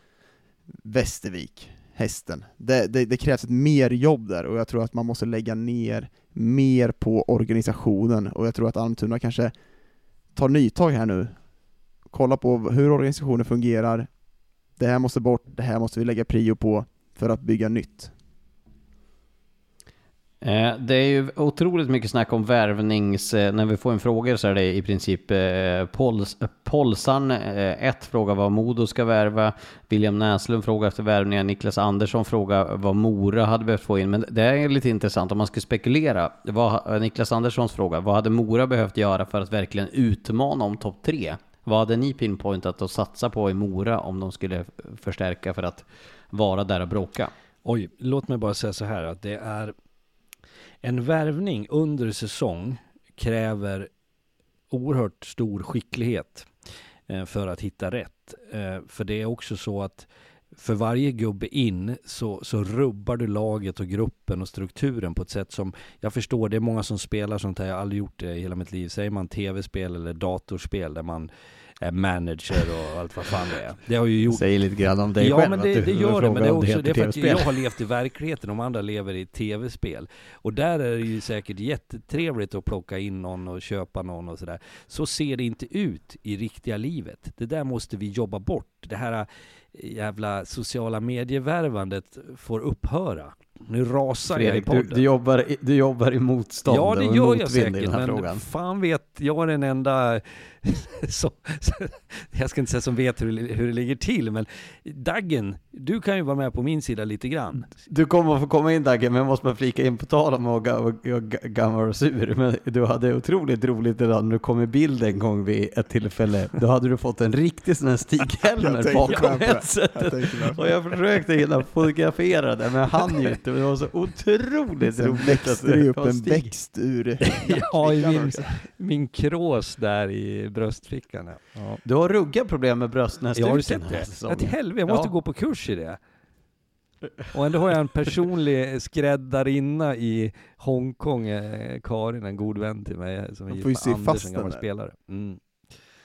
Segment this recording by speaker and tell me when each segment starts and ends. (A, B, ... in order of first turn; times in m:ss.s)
0:00.8-0:09.5 A
0:10.3-0:11.4 A
0:12.1-0:14.1 A
0:14.8-0:18.1 A
0:20.4-0:47.3 B
0:47.6-0:49.7 C
0:50.8-0:53.9 C
0:54.7-0:56.5 C
0:57.1-1:11.3 C
1:11.8-1:14.4 C
1:14.3-1:17.6 B
1:15.2-1:35.0 C
1:34.3-1:38.4 B
1:36.7-1:47.7 C
1:47.9-2:06.5 B
1:58.6-2:00.7 A
1:59.1-1:59.4 C
2:04.8-2:08.6 A
2:07.2-2:11.8 C
2:11.8-2:15.1 B
2:13.4-2:16.0 C
2:17.3-2:25.4 C
2:23.5-2:24.6 A